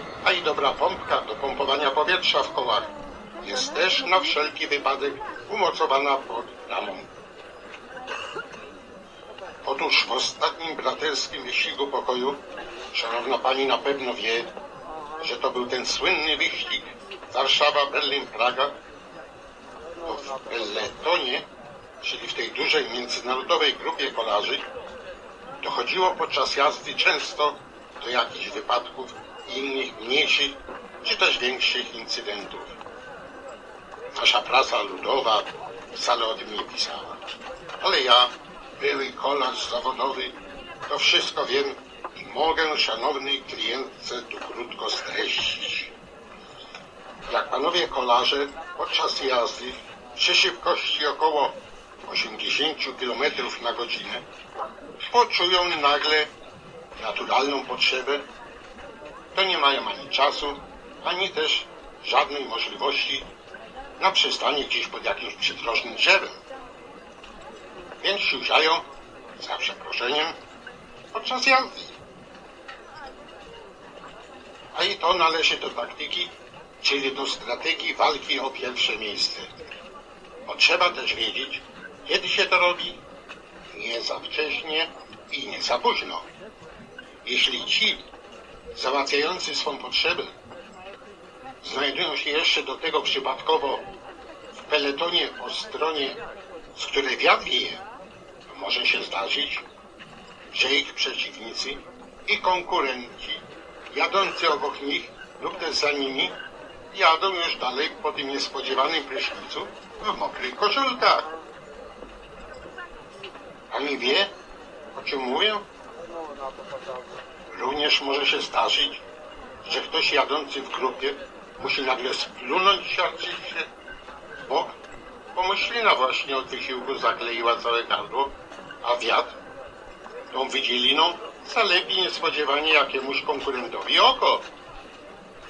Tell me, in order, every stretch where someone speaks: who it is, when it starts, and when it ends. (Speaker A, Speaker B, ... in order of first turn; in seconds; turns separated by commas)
Speaker A: 0.2-7.1, Speaker A: 9.7-14.5, Speaker A: 15.2-18.7, Speaker A: 20.0-21.5, Speaker A: 22.0-24.7, Speaker A: 25.6-32.8, Speaker A: 34.2-37.2, Speaker A: 37.8-45.9, Speaker A: 47.3-54.3, Speaker A: 55.0-56.3, Speaker A: 57.0-58.3, Speaker A: 59.4-63.3, Speaker A: 64.0-66.4, Speaker A: 68.0-68.9, Speaker A: 69.4-70.3, Speaker A: 71.1-72.0, Speaker A: 74.7-79.5, Speaker A: 80.5-83.0, Speaker A: 83.7-86.3, Speaker A: 87.2-88.0, Speaker A: 88.7-90.3, Speaker A: 91.6-93.9, Speaker A: 94.5-96.2, Speaker A: 96.8-97.8, Speaker A: 98.5-99.7, Speaker A: 100.5-106.4, Speaker A: 106.9-111.3, Speaker A: 113.7-114.3, Speaker A: 114.9-115.6, Speaker A: 117.5-119.0, Speaker A: 119.6-123.7, Speaker A: 124.4-124.7, Speaker A: 125.3-129.4, Speaker A: 130.3-134.5